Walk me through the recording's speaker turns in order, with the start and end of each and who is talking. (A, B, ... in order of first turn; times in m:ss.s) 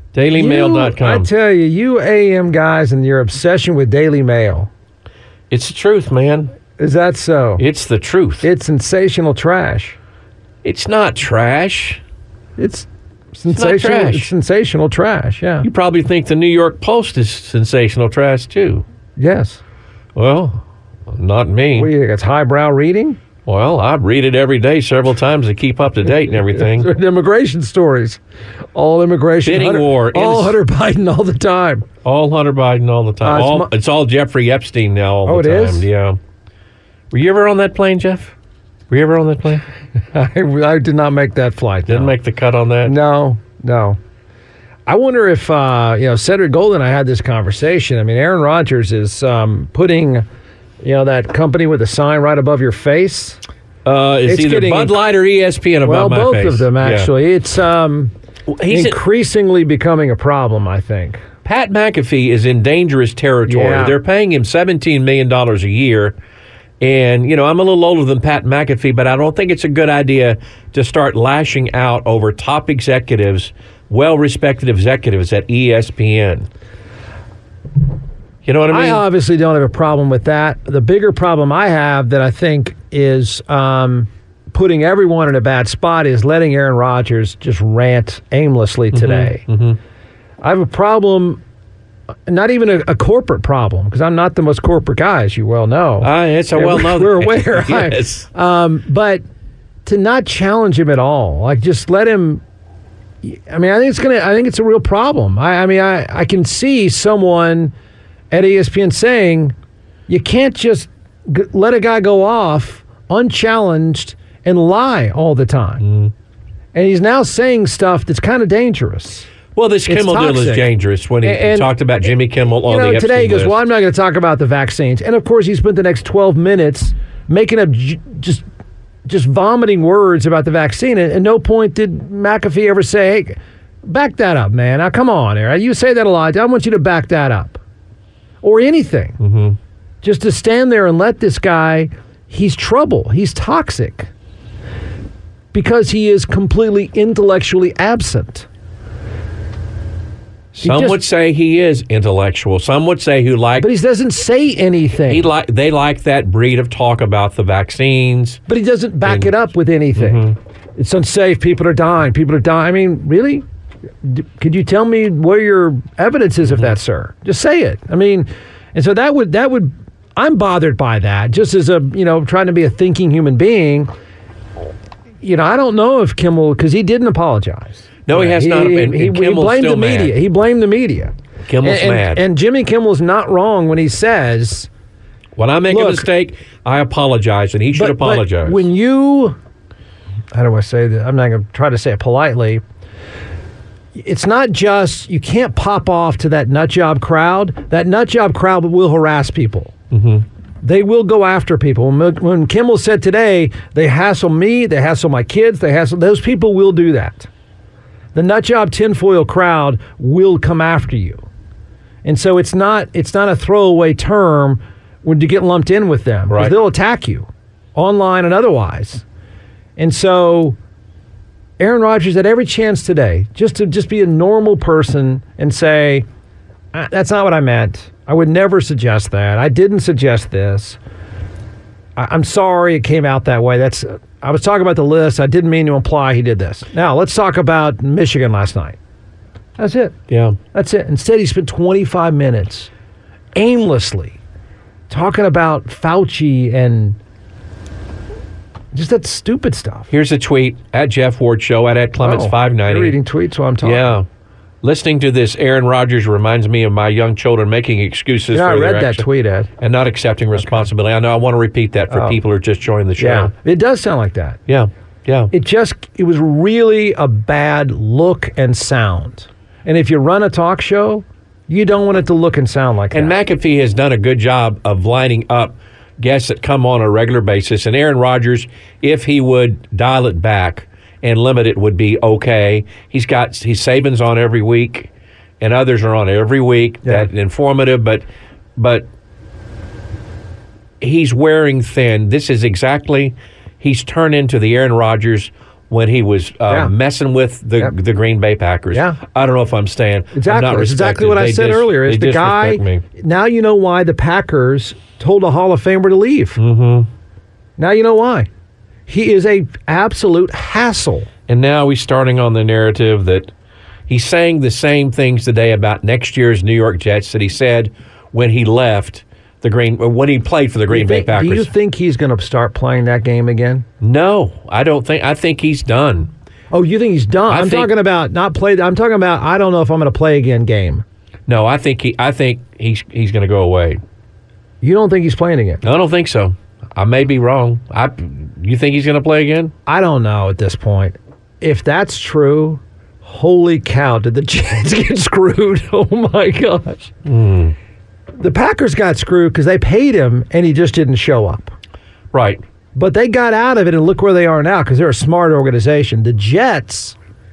0:00.1-0:01.3 A
0:00.3-0:04.7 B
0:05.5-0:06.5 A
0:06.8-0:07.6 B
0:07.6-0:08.4 A
0:08.4-0:10.0 B
0:10.6-0:12.0 A
0:12.6-0:15.7 B
0:13.5-0:14.3 A
0:15.6-0:18.8 A
0:19.2-0:19.6 B
0:20.1-0:21.9 A
0:21.8-0:23.2 B
0:23.4-0:26.9 A
0:26.6-0:28.2 B
0:28.7-0:31.9 B
0:29.4-0:30.6 A
0:32.0-0:36.2 A
0:33.2-0:33.7 B
0:35.2-0:35.9 B
0:37.1-0:38.3 A
0:38.9-0:39.6 A
0:40.1-0:42.1 B
0:41.9-0:42.9 A
0:42.8-0:44.0 B
0:44.9-0:50.2 B
0:50.8-0:53.4 B
0:53.8-0:57.1 A
0:54.2-0:55.0 B
0:55.8-0:58.1 B
0:58.5-0:59.0 A
0:58.7-1:01.2 B
1:01.4-1:06.2 A
1:03.5-1:04.0 B
1:06.8-1:16.5 A
1:18.4-1:19.0 A
1:18.7-1:29.4 B
1:28.9-1:29.8 A
1:30.4-1:31.4 B
1:32.3-1:39.2 B
1:36.0-1:38.3 A
1:39.8-1:42.4 B
1:43.2-1:47.7 B
1:48.3-1:49.5 B
1:50.1-1:55.8 B
1:55.8-1:56.1 A
1:56.7-1:59.3 B
1:59.5-2:03.6 A
1:59.9-2:00.7 B
2:01.2-2:01.7 B
2:02.6-2:08.4 B
2:09.1-2:17.6 B
2:18.4-2:19.2 B
2:19.2-2:19.6 A
2:20.0-2:24.1 B
2:25.5-2:28.5 B
2:30.5-2:33.7 A
2:30.6-2:31.0 B
2:33.6-2:35.3 B
2:35.1-2:38.4 A
2:38.5-2:43.4 B
2:39.0-2:39.3 A
2:40.0-2:40.3 A
2:44.0-2:53.9 B
2:46.5-2:46.7 A
2:55.2-3:04.7 B
2:58.1-3:00.2 A
3:01.5-3:02.2 A
3:05.4-3:08.7 A
3:05.7-3:06.1 B
3:07.7-3:09.4 B
3:10.3-3:12.6 B
3:13.9-3:19.7 B
3:19.9-3:20.2 A
3:20.6-3:27.3 B
3:28.1-3:31.2 B
3:32.0-3:39.0 B
3:36.3-3:36.5 A
3:39.8-3:40.6 B
3:41.6-3:46.0 B
3:46.7-3:50.8 B
3:52.0-3:58.8 B
3:59.6-3:59.9 B
4:00.1-4:00.4 A
4:00.5-4:02.7 B
4:03.3-4:04.2 B
4:04.9-4:07.0 B
4:08.7-4:09.9 B
4:09.9-4:13.0 A
4:12.0-4:14.0 B
4:13.6-4:14.0 A
4:14.6-4:19.1 A
4:18.3-4:19.5 B
4:19.6-4:23.3 A
4:20.4-4:20.6 B
4:21.9-4:22.2 B
4:23.0-4:24.4 B
4:24.5-4:25.3 A
4:25.3-4:33.1 B
4:32.9-4:44.9 A
4:45.4-4:48.0 A
4:46.8-4:47.1 B
4:48.6-4:48.9 A
4:50.8-5:02.8 A
4:58.7-4:59.0 B
5:00.1-5:06.4 B
5:06.4-5:06.9 A
5:07.6-5:08.3 B
5:08.9-5:11.1 B
5:11.3-5:13.3 A
5:13.9-5:21.5 A
5:20.7-5:23.6 B
5:23.8-5:26.1 A
5:26.5-5:30.8 B
5:27.3-5:27.7 A
5:31.3-5:33.8 A
5:34.6-5:35.6 B
5:35.6-5:39.5 A
5:39.6-5:46.9 B
5:47.0-5:47.6 A
5:48.2-5:51.5 B
5:52.1-5:52.4 A
5:52.7-5:57.0 B